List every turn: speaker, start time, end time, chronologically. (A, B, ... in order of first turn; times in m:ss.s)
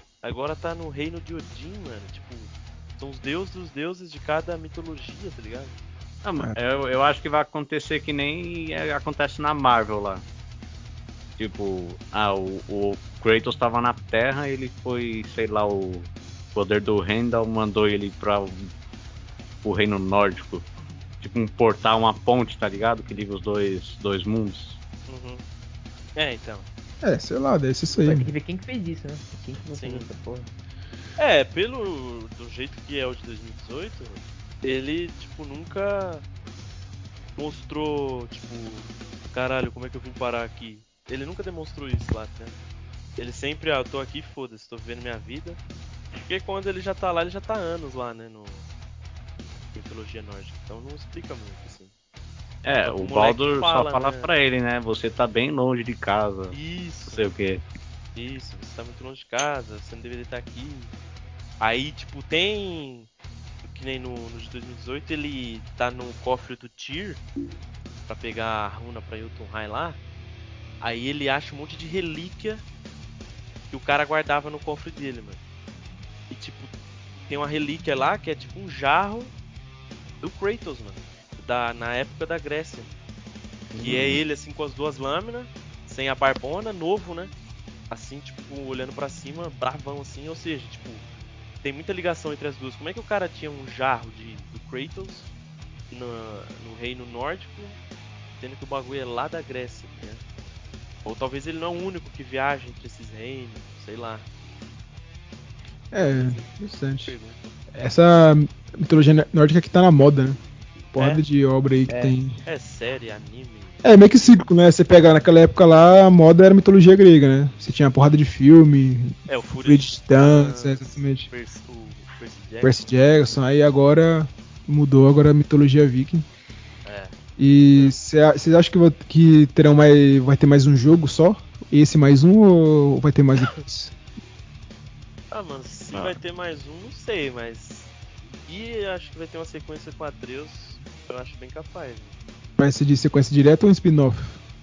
0:00.2-0:05.7 A
0:06.2-0:10.2 B
0:11.4-0:18.7 B
0:19.6-0:20.6 B
0:21.2-0:24.8 B
0:25.1-0:25.4 A
0:26.2-0:26.6 A
0:27.0-0:28.3 C
0:28.0-0:30.5 D
0:29.7-0:30.1 A
0:31.2-0:36.2 A
0:37.4-0:42.6 A
0:43.2-0:45.6 A
0:46.2-0:48.6 A
0:49.7-0:51.9 A
0:52.6-0:57.6 B
0:52.8-0:54.3 A
0:56.5-0:57.2 A
0:58.1-1:00.9 A
1:01.6-1:03.1 A
1:03.6-1:07.2 A
1:08.1-1:10.0 A
1:10.8-1:12.6 A
1:13.7-1:15.4 A
1:16.3-1:16.7 A
1:17.3-1:19.3 A
1:20.2-1:22.9 A
1:23.7-1:24.2 B
1:23.8-1:27.3 A
1:27.9-1:31.0 A
1:31.6-1:35.3 A
1:35.9-1:37.8 A
1:38.4-1:40.2 A
1:41.0-1:44.2 A
1:45.9-1:47.1 C
1:46.0-1:47.5 A
1:47.7-1:50.4 C
1:50.9-1:52.3 C
1:51.0-1:51.2 A
1:51.9-1:52.2 D
1:52.4-1:53.9 A
1:53.8-2:01.3 C
1:59.3-2:03.0 A
2:02.6-2:06.3 C
2:06.8-2:07.1 A
2:07.4-2:13.9 C
2:15.3-2:17.9 A
2:15.9-2:16.2 B
2:18.5-2:22.2 A
2:22.6-2:24.4 C